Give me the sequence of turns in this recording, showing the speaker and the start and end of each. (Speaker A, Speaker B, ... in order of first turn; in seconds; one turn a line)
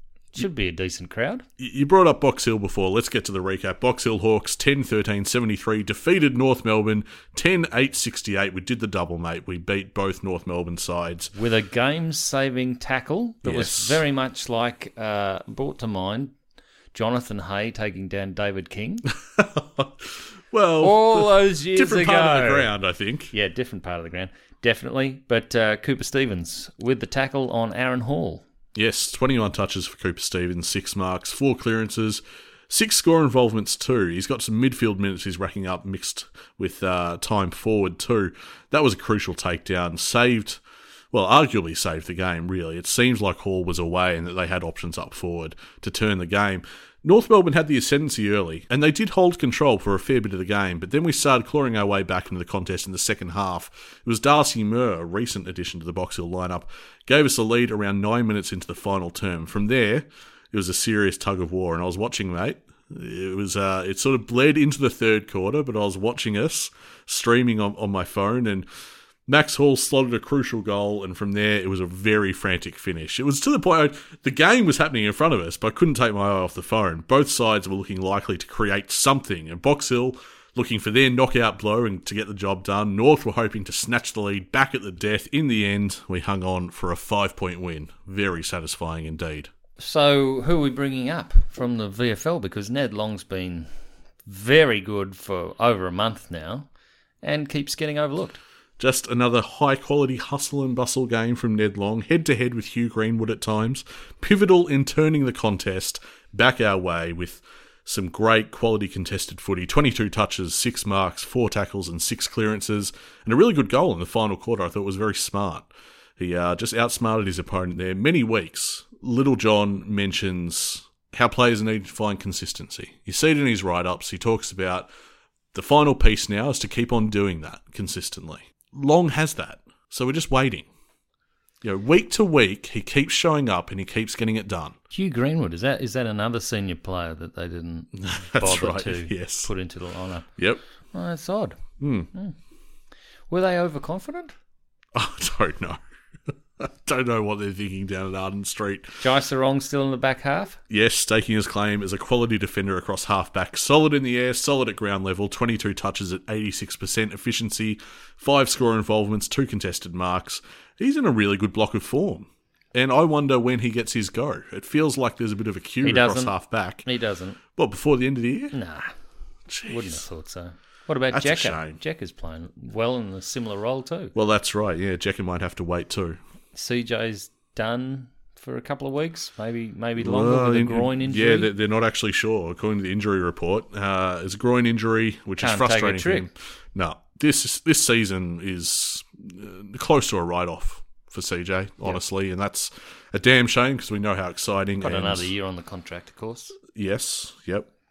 Speaker A: 0.3-1.4
Speaker B: 1.6-11.3
Speaker A: 11.3-16.3
Speaker B: 13.4-14.0
Speaker A: 16.9-19.1
Speaker B: 19.4-23.3
Speaker A: 20.8-22.7
Speaker A: 23.3-28.4
Speaker B: 28.7-40.6
Speaker B: 41.1-68.7
Speaker B: 69.3-89.5
Speaker A: 89.8-93.7
Speaker A: 94.2-96.7
Speaker A: 97.2-98.4
Speaker B: 98.8-124.9
Speaker B: 125.5-130.7
Speaker B: 131.6-134.8
Speaker A: 134.9-140.3
Speaker B: 138.0-139.5
Speaker A: 140.9-141.6
Speaker B: 141.8-142.1
Speaker A: 143.3-144.3
Speaker B: 144.9-145.8
Speaker B: 146.6-149.0
Speaker A: 149.0-150.6
Speaker B: 150.7-166.8
Speaker A: 165.8-167.4
Speaker B: 167.5-168.5
Speaker A: 168.5-168.9
Speaker B: 169.5-170.0
Speaker A: 169.7-174.1
Speaker B: 171.1-171.8
Speaker B: 174.1-176.2
Speaker A: 176.5-181.5
Speaker B: 180.0-195.3
Speaker A: 185.4-186.3
Speaker A: 194.8-196.6
Speaker B: 196.7-197.7